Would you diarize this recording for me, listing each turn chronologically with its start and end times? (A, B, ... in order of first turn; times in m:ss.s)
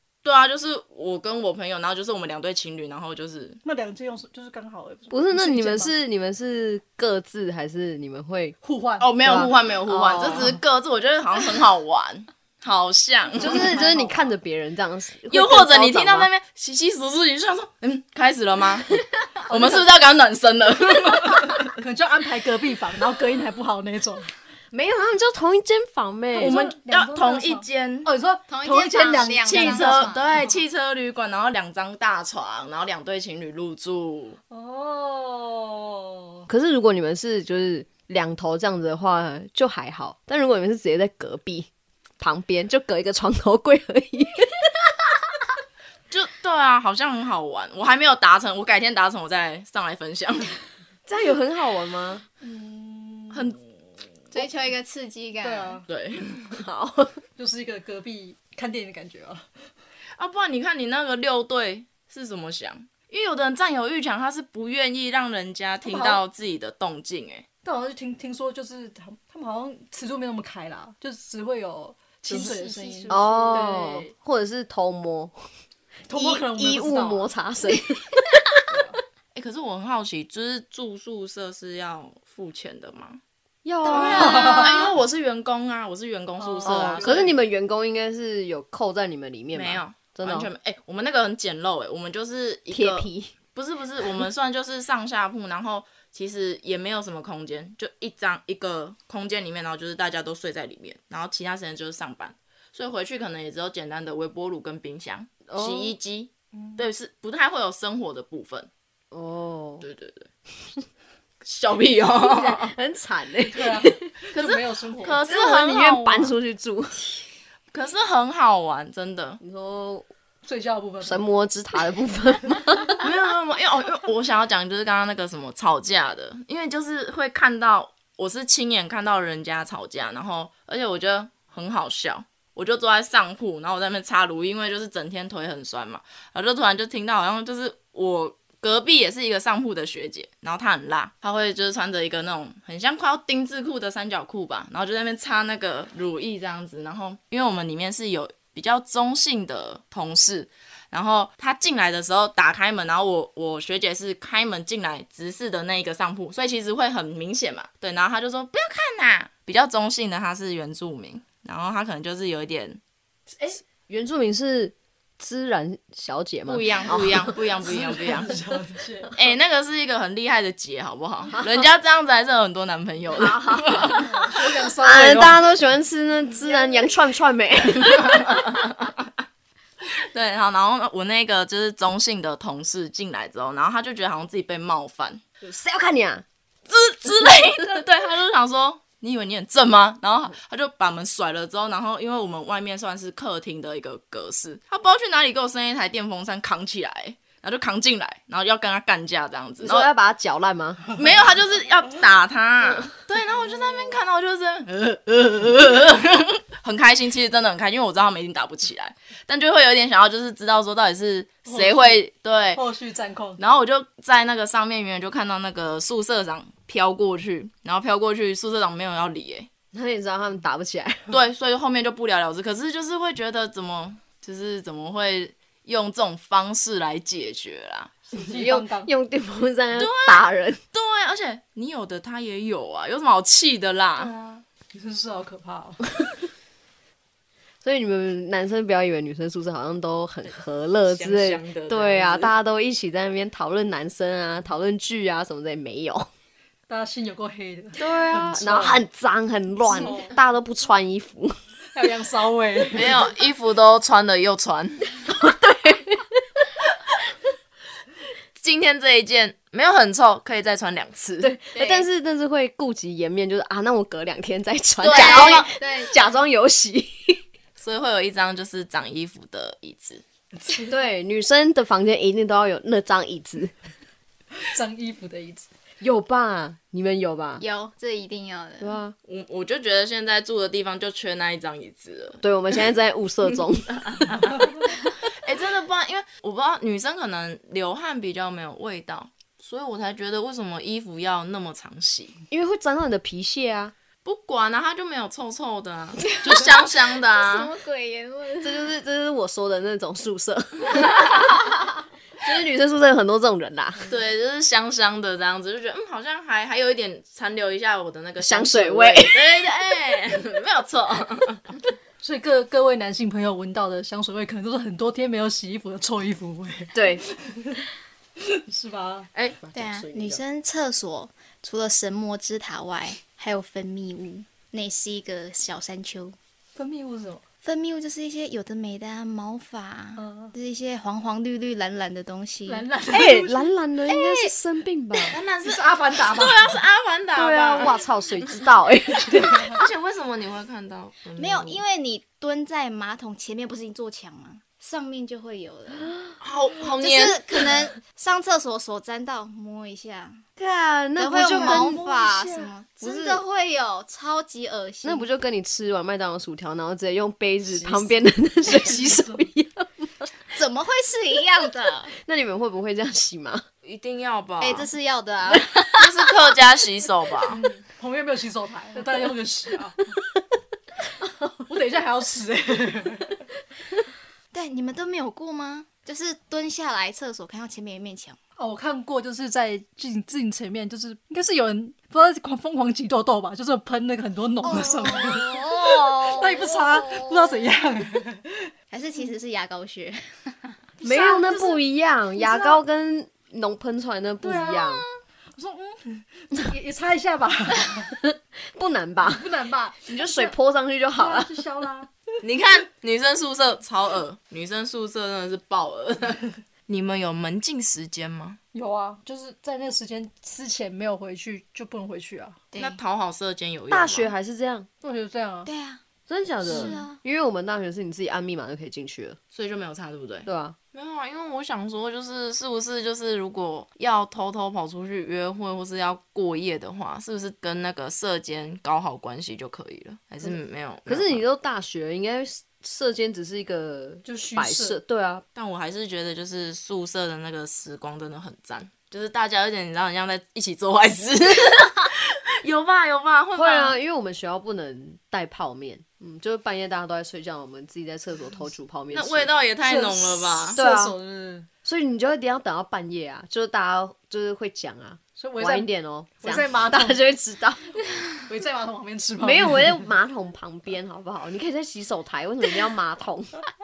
0:00.2-0:03.6 A
0:03.6-0:05.9 B
0:05.1-0:08.6 C
0:08.6-0:09.1 B
0:09.0-0:13.8 A
0:09.2-0:10.6 C
0:13.3-0:14.3 B
0:13.4-0:16.3 C
0:15.3-0:21.7 A
0:19.5-0:19.9 B
0:21.8-0:24.3 B
0:24.7-0:26.6 C
0:26.3-0:30.6 B
0:26.4-0:28.1 A
0:28.5-0:30.2 D
0:29.4-0:34.4 A
0:34.5-0:36.5 B
0:36.5-0:41.7 C
0:42.2-0:44.6 C
0:46.1-0:50.6 A
0:51.1-0:52.2 C
0:52.4-0:53.6 B
0:53.3-0:53.6 A
0:54.3-0:55.8 D
0:55.4-0:55.8 B
0:55.9-0:56.6 A
0:56.5-0:57.2 C
0:57.4-0:59.5 B
1:00.2-1:07.4 A
1:05.8-1:06.2 B
1:07.6-1:14.1 B
1:12.3-1:13.6 D
1:13.1-1:15.3 C
1:16.1-1:17.3 B
1:16.1-1:18.7 C
1:19.3-1:23.2 A
1:23.6-1:24.6 C
1:23.8-1:24.9 D
1:23.9-1:27.3 A
1:24.0-1:24.8 B
1:26.4-1:27.3 B
1:26.6-1:30.5 C
1:29.5-1:48.7 A
1:32.7-1:33.3 C
1:45.5-1:45.9 C
1:46.5-1:46.8 B
1:49.1-1:49.8 C
1:49.8-1:50.3 A
1:51.4-1:52.7 A
1:52.2-1:54.1 C
1:53.5-1:55.2 B
1:54.3-1:56.3 A
1:55.2-1:57.2 C
1:57.7-1:59.4 A
1:59.4-2:00.1 C
2:00.4-2:01.2 B
2:01.0-2:03.0 C
2:03.0-2:42.8 A
2:43.4-2:47.3 C
2:46.5-2:48.3 A
2:47.6-2:49.1 B
2:49.1-2:54.1 A
2:53.1-2:54.0 C
2:53.9-2:55.5 B
2:54.8-2:58.3 C
2:56.4-2:56.9 B
2:57.9-2:58.9 A
2:59.8-3:05.2 A
3:05.4-3:06.2 C
3:06.7-3:19.9 A
3:19.6-3:21.0 C
3:20.9-3:32.6 A
3:31.4-3:32.0 B
3:32.5-3:33.4 B
3:33.4-3:39.5 A
3:39.7-3:41.2 C
3:41.1-3:48.0 A
3:48.1-3:48.9 B
3:48.2-3:50.6 C
3:49.8-3:54.1 A
3:54.0-3:55.8 B
3:57.6-4:06.1 C
4:00.8-4:02.3 A
4:06.7-4:08.8 B
4:07.8-4:11.4 C
4:09.7-4:10.1 B
4:11.7-4:13.1 B
4:12.7-4:14.9 A
4:15.0-4:16.2 C
4:18.4-4:21.3 A
4:21.2-4:27.2 C
4:21.5-4:21.9 D
4:24.8-4:25.5 A
4:24.9-4:26.0 D
4:27.6-4:30.0 A
4:30.4-4:30.7 B
4:30.6-4:33.5 C
4:34.4-4:35.5 B
4:35.8-4:37.4 C
4:37.4-4:38.8 D
4:38.6-4:38.9 C
4:39.0-4:42.2 A
4:42.2-4:43.8 C
4:43.7-4:44.5 A
4:45.2-4:52.2 A
4:52.3-4:53.7 C
4:54.0-4:57.5 A
4:57.0-4:58.7 D
4:58.4-5:01.4 C
5:02.2-5:03.8 C
5:03.8-5:11.6 A
5:08.2-5:09.3 C
5:12.0-5:17.6 B
5:16.7-5:17.0 C
5:18.2-5:19.1 B
5:19.1-5:19.4 A
5:19.4-5:20.2 C
5:19.5-5:26.2 D
5:26.6-5:27.2 B
5:27.4-5:32.7 D
5:30.0-5:30.3 B
5:32.5-5:33.5 B
5:32.9-5:35.2 C
5:33.9-5:34.3 D
5:35.1-5:37.8 A
5:35.4-5:36.6 B
5:37.1-5:39.5 C
5:39.2-5:39.5 B
5:39.5-5:41.6 A
5:41.2-5:45.9 D
5:45.8-5:46.1 C
5:46.2-5:47.4 A
5:46.8-5:50.2 D
5:50.4-5:51.8 C
5:51.0-5:55.1 D
5:51.3-5:52.5 B
5:52.8-5:53.2 C
5:54.8-6:00.1 C
5:57.6-5:57.9 B
5:58.4-5:59.3 B
6:00.3-6:01.9 D
6:02.0-6:03.4 C
6:03.6-6:04.7 A
6:04.4-6:05.6 D
6:05.6-6:07.4 A
6:07.3-6:09.8 B
6:11.4-6:13.2 B
6:14.3-6:18.2 D
6:18.4-6:28.5 B
6:24.4-6:27.5 D
6:28.7-6:30.6 D
6:30.8-6:31.6 B
6:30.8-6:34.8 C
6:32.2-6:32.6 B
6:34.2-6:38.0 B
6:38.5-6:39.3 C
6:39.0-6:40.4 B
6:39.8-6:41.4 C
6:40.9-6:41.9 B
6:42.2-6:48.4 A
6:48.5-6:52.4 B
6:52.5-6:52.8 D
6:52.6-6:54.1 A
6:53.7-6:54.7 C
6:54.8-6:55.5 B
6:55.4-6:55.8 D
6:56.1-6:59.2 C
6:56.4-6:56.8 B
6:56.4-6:57.0 D
6:59.3-7:11.2 A
7:00.2-7:00.6 C
7:10.8-7:15.2 C
7:14.0-7:14.8 B
7:15.4-7:23.8 A
7:23.3-7:29.3 C
7:28.9-7:30.6 A
7:29.6-7:31.5 B
7:30.6-7:30.9 C
7:31.6-7:37.7 C
7:35.2-7:35.7 B
7:36.2-7:37.0 B
7:38.3-7:39.9 B
7:39.2-7:43.4 C